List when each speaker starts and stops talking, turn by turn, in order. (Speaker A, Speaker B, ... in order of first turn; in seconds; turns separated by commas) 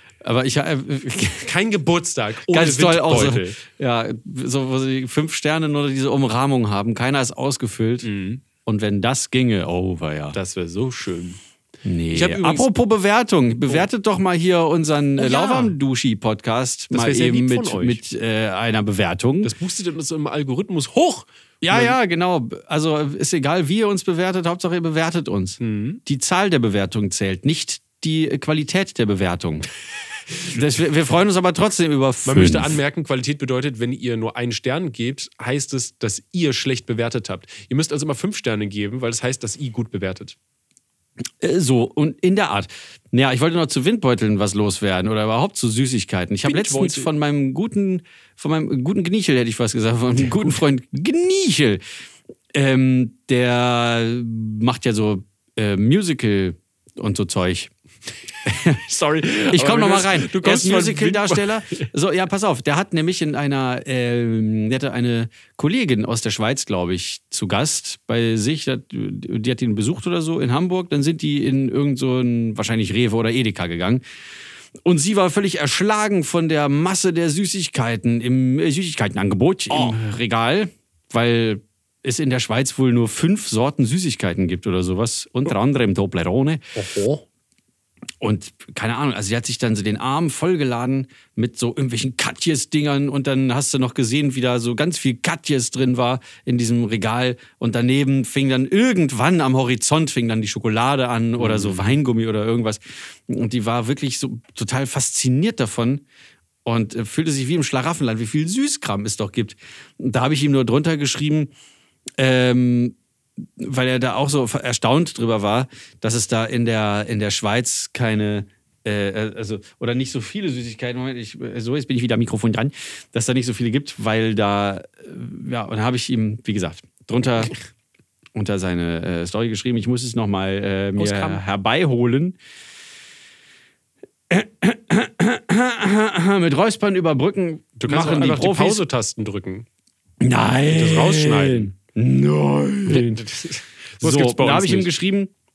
Speaker A: 0.2-1.5, Speaker B: 1.4-3.6, Speaker A: 2.5-8.1, Speaker B: 8.0-8.4, Speaker A: 8.6-10.4, Speaker B: 10.3-11.4, Speaker A: 11.8-19.5, Speaker B: 12.1-12.7, Speaker B: 15.2-15.8, Speaker B: 16.9-18.0, Speaker B: 19.4-22.0, Speaker A: 21.6-29.7, Speaker B: 25.6-26.0, Speaker A: 30.4-32.8, Speaker B: 32.2-40.4, Speaker A: 41.4-51.8, Speaker B: 46.4-47.1, Speaker A: 52.5-57.7, Speaker A: 58.5-58.8, Speaker B: 58.5-61.9, Speaker A: 59.4-74.0, Speaker A: 74.8-86.7, Speaker B: 79.7-80.0, Speaker B: 86.8-87.2, Speaker A: 88.2-106.0, Speaker B: 101.4-102.0, Speaker A: 106.7-111.5, Speaker A: 112.2-127.5, Speaker A: 128.3-132.4, Speaker B: 131.0-131.4, Speaker A: 134.3-138.8, Speaker B: 137.8-139.7, Speaker A: 140.2-143.2, Speaker B: 140.7-141.7, Speaker B: 142.9-144.9, Speaker A: 144.0-145.3